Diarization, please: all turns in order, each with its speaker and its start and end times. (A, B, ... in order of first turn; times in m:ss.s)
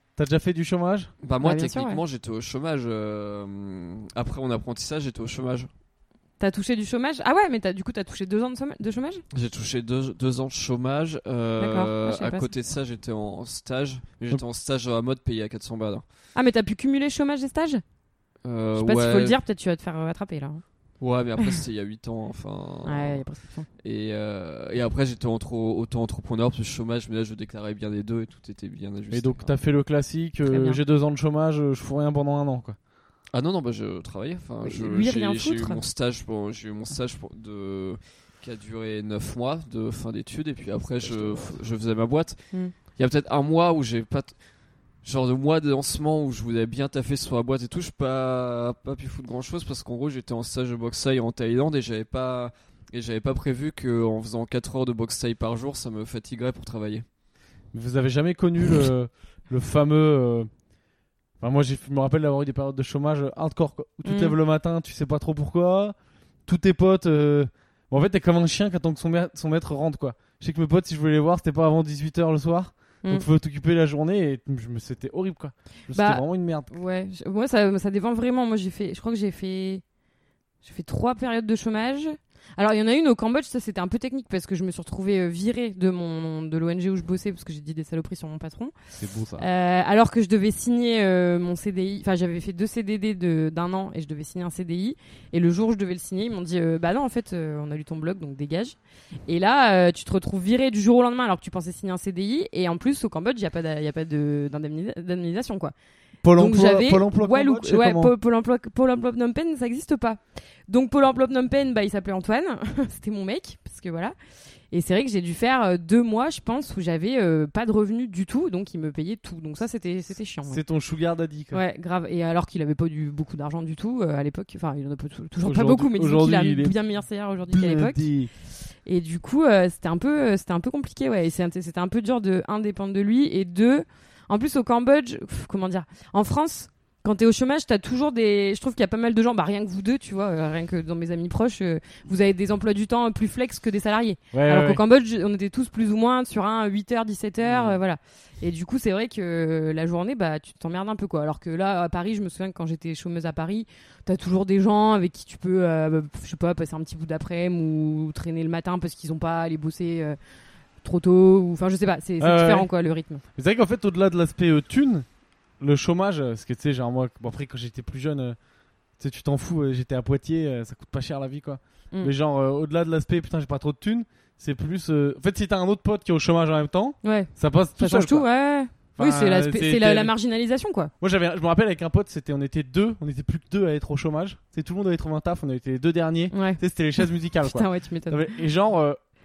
0:00.2-0:01.1 A
0:01.2-0:05.7 B
0:01.4-0:02.0 C
0:06.4-0:09.2 C
0:09.3-0:16.0 B
0:11.6-0:12.5 C
0:16.3-0:17.8 C
0:18.4-0:19.4 B
0:18.8-0:20.6 C
0:21.0-0:23.3 B
0:22.8-0:23.7 C
0:23.8-0:29.6 B
0:29.1-0:32.8 A
0:30.4-0:30.8 C
0:33.3-0:44.4 B
0:34.6-0:35.8 C
0:41.0-0:41.6 A
0:45.0-0:57.0 B
0:57.7-1:00.5 A
1:01.4-1:06.0 A
1:04.0-1:04.4 C
1:06.5-1:16.7 A
1:15.9-1:19.8 C
1:20.6-1:28.7 C
1:29.0-1:29.5 A
1:29.4-1:45.7 C
1:46.2-1:48.1 A
1:46.3-1:54.1 C
1:54.7-2:00.6 C
2:00.5-2:01.6 A
2:01.5-2:08.1 C
2:05.4-2:08.3 A
2:08.8-2:40.2 C
2:24.3-2:24.8 A
2:27.5-2:27.8 A
2:40.8-2:43.2 C
2:42.2-2:42.7 A
2:43.4-2:45.1 A
2:45.6-2:48.4 A
2:49.0-2:58.3 A
2:57.0-3:00.9 C
2:59.0-3:00.1 A
3:01.0-3:09.0 A
3:06.3-3:08.4 C